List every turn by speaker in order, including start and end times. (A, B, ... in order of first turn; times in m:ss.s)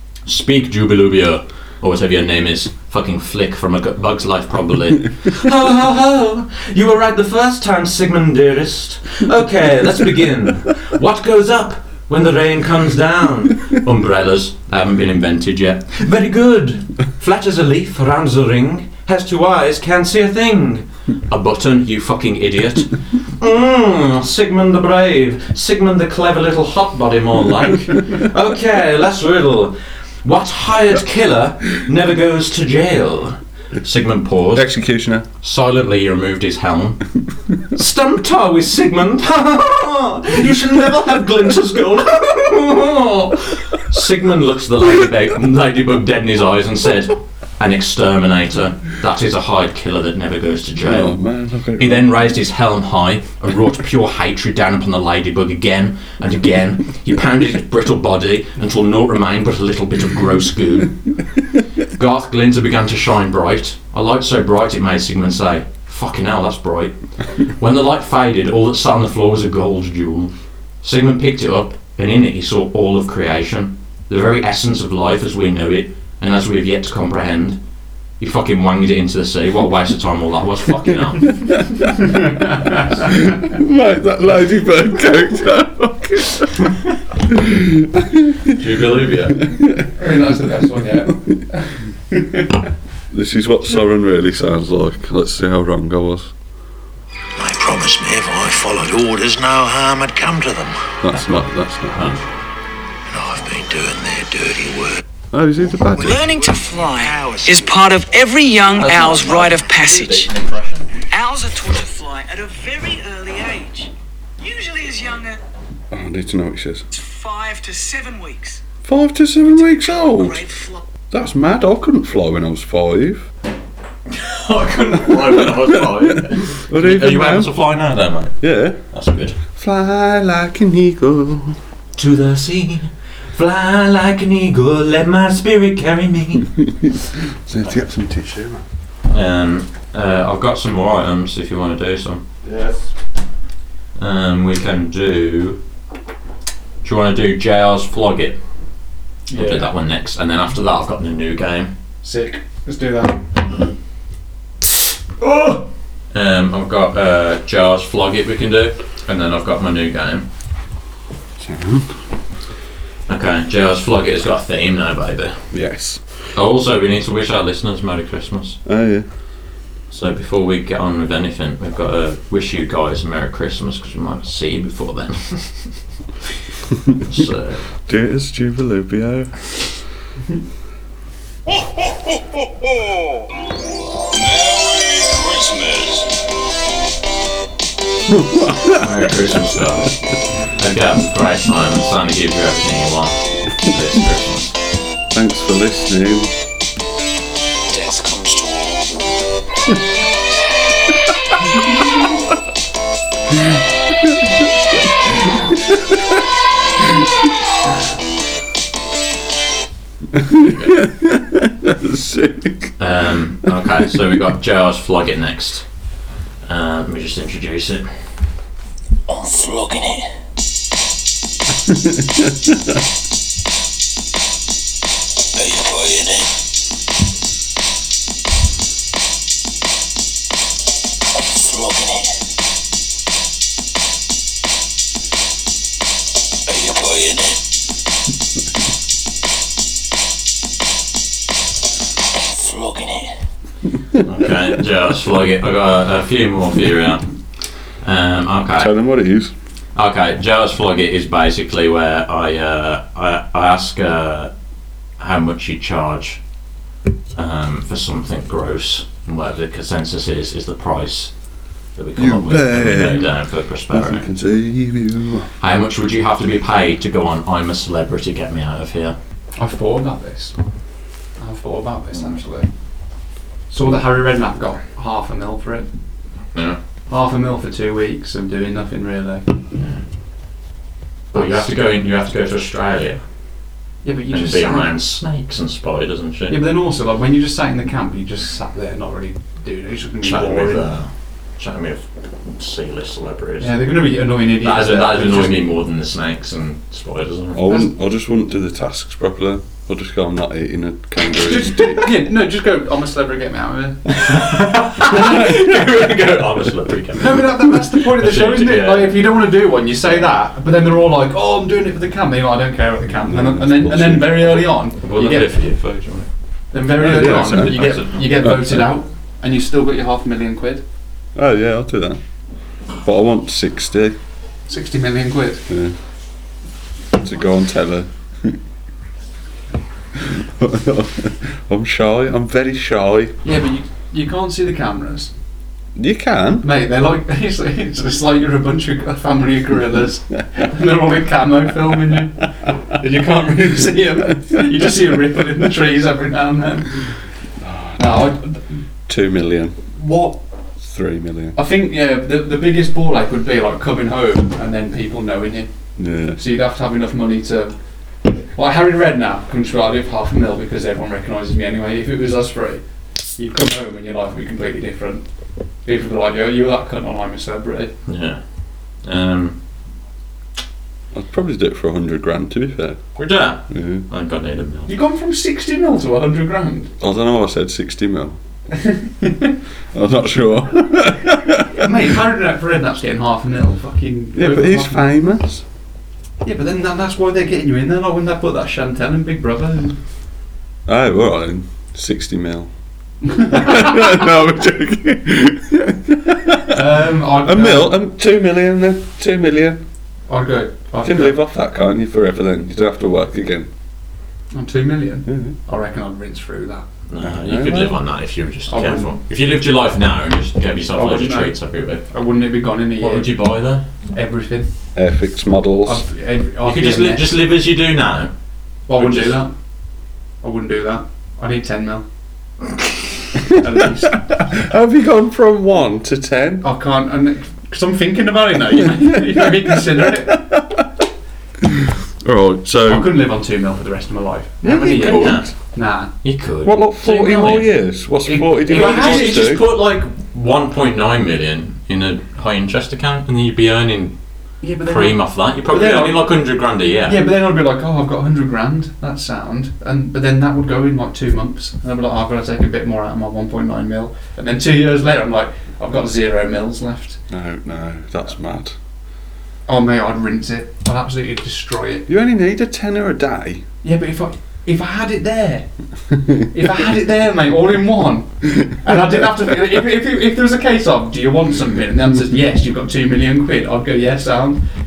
0:00.3-0:34.7 A
0:34.5-0:35.3 B
0:35.4-0:37.0 A
0:37.7-0:51.1 A
0:50.8-0:52.1 B
0:51.8-1:01.0 A
1:01.9-1:07.0 A
1:07.6-1:17.6 A
1:18.2-1:21.6 A
1:23.1-1:26.7 B
1:27.3-1:28.3 B
1:28.5-1:29.5 A
1:29.9-1:32.5 C
1:33.1-1:36.3 B
1:37.4-1:42.2 A
1:41.0-1:42.2 B
1:43.1-1:45.0 A
1:45.3-1:46.3 B
1:46.0-1:50.3 D
1:48.7-1:50.9 A
1:51.1-1:55.4 D
1:55.9-1:56.9 B
1:56.9-1:58.6 D
1:58.8-2:00.5 B
2:00.1-2:00.8 D
2:01.1-2:03.3 B
2:04.1-2:09.4 A
2:06.6-2:07.5 B
2:08.4-2:08.8 B
2:09.6-2:11.6 B
2:12.0-2:16.6 A
2:16.8-2:18.6 B
2:19.1-2:22.2 A
2:22.4-2:22.9 B
2:24.0-2:25.6 A
2:26.8-2:28.4 A
2:29.3-2:29.7 C
2:29.3-2:31.7 A
2:32.0-2:33.3 C
2:36.1-2:40.3 A
2:41.4-2:42.0 B
2:43.1-2:45.4 A
2:45.5-2:46.0 B
2:46.4-2:48.6 A
2:48.7-2:49.1 B
2:49.9-2:55.8 A
2:57.0-2:57.7 A
2:57.9-2:59.4 B
3:04.1-3:06.2 E
3:08.1-3:09.6 B
3:08.7-3:14.6 A
3:15.1-3:16.3 B
3:17.7-3:18.8 E
3:24.1-3:24.4 B
3:25.0-3:26.1 B
3:30.1-3:32.8 B
3:30.4-3:30.8 A
3:32.8-3:35.7 A
3:36.5-3:37.9 A
3:39.1-3:40.0 E
3:41.8-3:42.5 B
3:45.4-3:46.3 E
3:51.2-3:52.1 E
3:56.5-3:57.4 E
4:02.2-4:03.1 E
4:04.0-4:07.1 A
4:07.8-4:08.7 A
4:08.6-4:09.3 B
4:09.8-4:14.3 A
4:15.0-4:16.2 A
4:17.2-4:21.1 A
4:21.8-4:24.1 A
4:22.0-4:23.2 B
4:23.7-4:25.3 B
4:25.4-4:29.0 A
4:29.4-4:30.4 C
4:31.2-4:32.5 C
4:33.5-4:35.7 C
4:36.3-4:36.6 A
4:36.9-4:39.3 C
4:41.1-4:43.0 A
4:43.8-4:44.8 C
4:44.1-4:46.4 A
4:46.3-4:50.8 C
4:50.0-4:53.6 A
4:53.4-4:55.5 C
4:54.4-4:57.5 A
4:57.3-5:01.9 B
5:01.0-5:05.1 C
5:04.0-5:09.0 A
5:07.0-5:15.4 C
5:13.1-5:14.3 B
5:14.8-5:16.1 A
5:16.5-5:20.6 C
5:16.8-5:18.7 B
5:16.8-5:18.0 A
5:21.2-5:22.0 B
5:22.8-5:24.0 B
5:24.5-5:25.5 C
5:25.5-5:25.8 B
5:26.9-5:28.4 B
5:30.0-5:33.2 B
5:33.2-5:35.1 C
5:35.8-5:36.5 B
5:36.4-5:47.0 C
5:47.4-5:48.0 B
5:47.8-5:48.4 C
5:48.9-5:49.9 B
5:49.8-5:50.1 C
5:50.6-5:51.4 B
5:51.4-5:55.5 C
5:55.8-5:56.2 B
5:56.1-5:57.6 C
5:58.2-6:02.6 C
6:03.2-6:05.1 C
6:05.6-6:07.7 C
6:07.9-6:08.2 A
6:08.8-6:09.4 A
6:10.9-6:12.8 B
6:13.0-6:14.7 A
6:13.5-6:13.8 B
6:14.7-6:16.7 C
6:16.8-6:18.2 B
6:18.6-6:19.3 C
6:19.7-6:21.7 B
6:21.5-6:24.9 C
6:24.2-6:25.4 B
6:26.2-6:29.8 C
6:30.7-6:32.5 B
6:33.1-6:33.8 C
6:33.2-6:36.6 B
6:36.4-6:37.8 C
6:37.1-6:39.6 B
6:40.1-6:41.2 C
6:40.8-6:43.5 B
6:44.3-6:46.7 C
6:45.1-6:45.4 B
6:46.9-6:51.9 A
6:47.0-6:47.8 B
6:48.5-6:49.0 C
6:50.8-6:53.2 C
6:52.8-6:53.6 A
6:53.9-6:54.5 C
6:54.8-6:55.8 B
6:55.6-6:57.1 C
6:56.4-6:58.1 A
6:58.7-6:59.3 C
6:58.7-6:59.2 A
7:00.2-7:01.8 C
7:03.2-7:04.1 C
7:04.2-7:06.4 B
7:06.4-7:10.4 C
7:08.7-7:10.6 B
7:11.4-7:13.0 B
7:12.6-7:15.9 C
7:14.4-7:15.3 B
7:14.8-7:15.3 A
7:16.0-7:17.5 A
7:16.4-7:19.5 B
7:18.0-7:19.3 C
7:18.4-7:24.0 A
7:24.4-7:26.1 C
7:24.6-7:27.0 A
7:26.9-7:37.0 C
7:37.1-7:38.6 B
7:39.5-7:41.9 C
7:41.9-7:43.4 B
7:43.6-7:45.5 C
7:46.2-7:54.5 C